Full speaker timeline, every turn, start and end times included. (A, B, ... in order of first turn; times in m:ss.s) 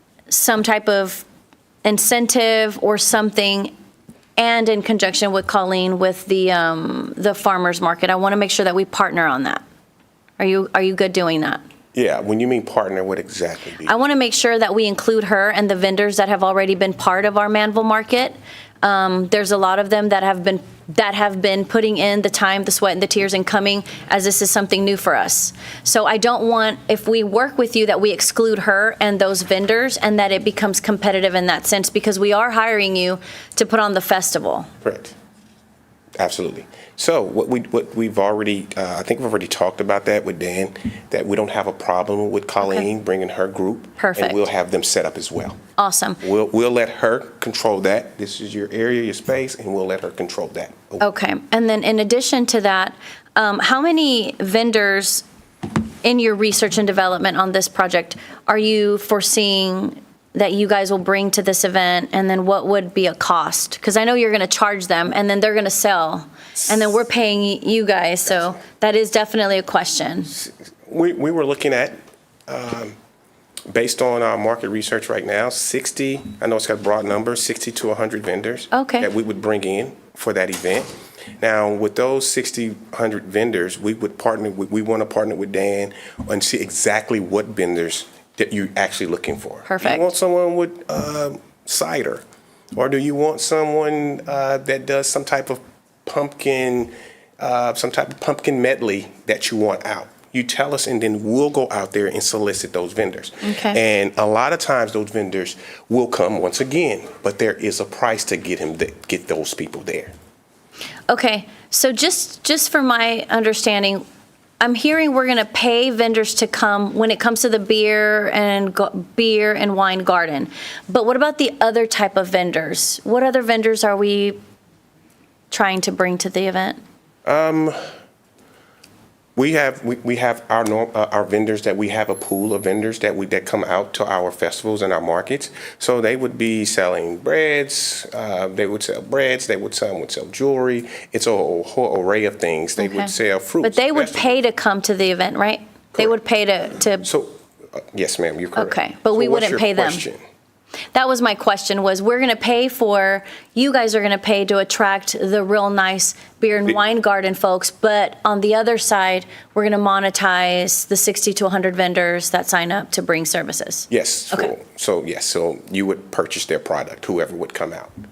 0:00.3-0:01.2 A
0:01.8-0:03.7 A
0:04.4-0:09.6 A
0:10.4-0:11.6 A
0:11.9-0:13.9 B
0:13.8-0:34.7 A
0:34.8-0:35.1 B
0:36.2-0:45.6 B
0:42.6-0:42.8 A
0:44.0-0:44.4 A
0:45.8-0:46.2 A
0:46.2-0:51.0 B
0:51.0-0:55.2 A
0:56.0-1:10.3 A
1:06.6-1:06.9 B
1:10.3-1:12.9 B
1:13.7-1:32.2 B
1:18.7-1:19.1 A
1:29.6-1:30.1 A
1:32.7-1:50.1 B
1:43.4-1:43.8 A
1:51.1-1:54.0 A
1:54.6-2:04.4 A
2:05.5-2:06.8 A
2:07.2-2:07.8 B
2:09.3-2:24.3 B
2:22.8-2:27.0 A
2:27.0-2:30.2 B
2:28.5-2:30.0 A
2:30.9-2:44.5 A
2:43.9-2:47.9 B